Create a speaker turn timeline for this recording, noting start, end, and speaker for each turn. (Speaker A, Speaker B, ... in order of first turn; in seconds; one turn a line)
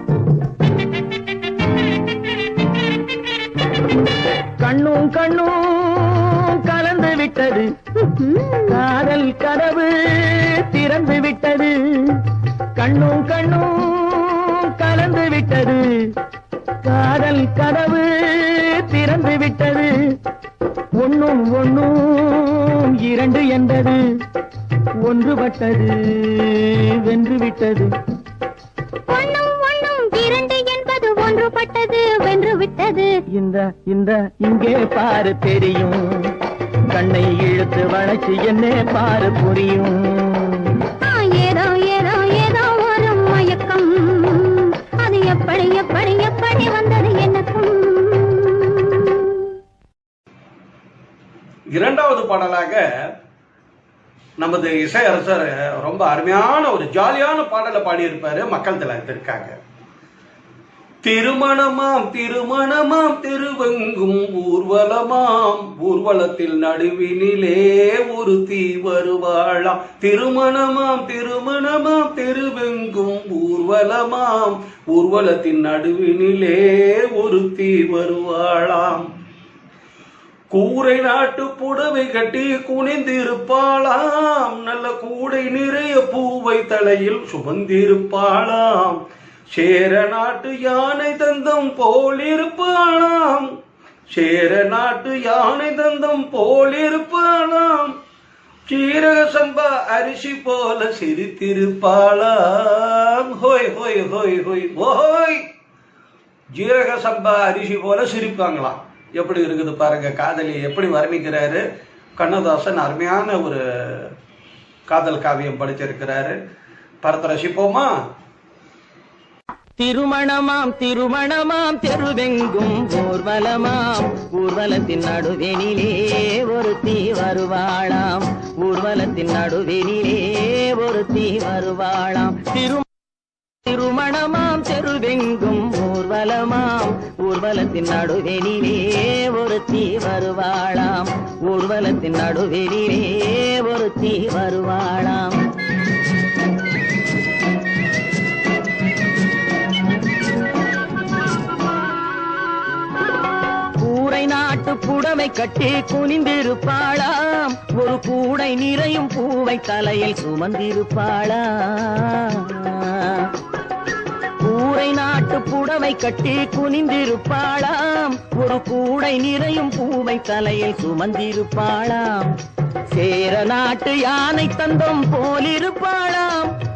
Speaker A: 4.6-7.7
Speaker B: 8.0-8.8
Speaker A: 8.7-12.2
Speaker A: 12.8-16.1
Speaker A: 16.8-19.9
Speaker A: 21.0-24.0
Speaker A: 25.0-27.9
Speaker B: 29.1-33.1
Speaker A: 33.3-36.3
Speaker A: 36.9-40.7
Speaker B: 41.0-49.5
Speaker C: 51.7-52.8
Speaker C: 54.4-59.5
Speaker C: 61.0-79.1
Speaker C: 80.5-89.0
Speaker C: 89.5-93.5
Speaker C: 94.1-97.9
Speaker C: 98.7-105.4
Speaker C: 106.5-111.6
Speaker C: 112.2-114.1
Speaker C: 114.9-116.4
Speaker C: 117.0-117.9
Speaker A: 119.8-132.9
Speaker A: 133.6-145.4
Speaker A: 153.8-163.3
Speaker A: 164.4-172.3
Speaker A: 172.9-176.5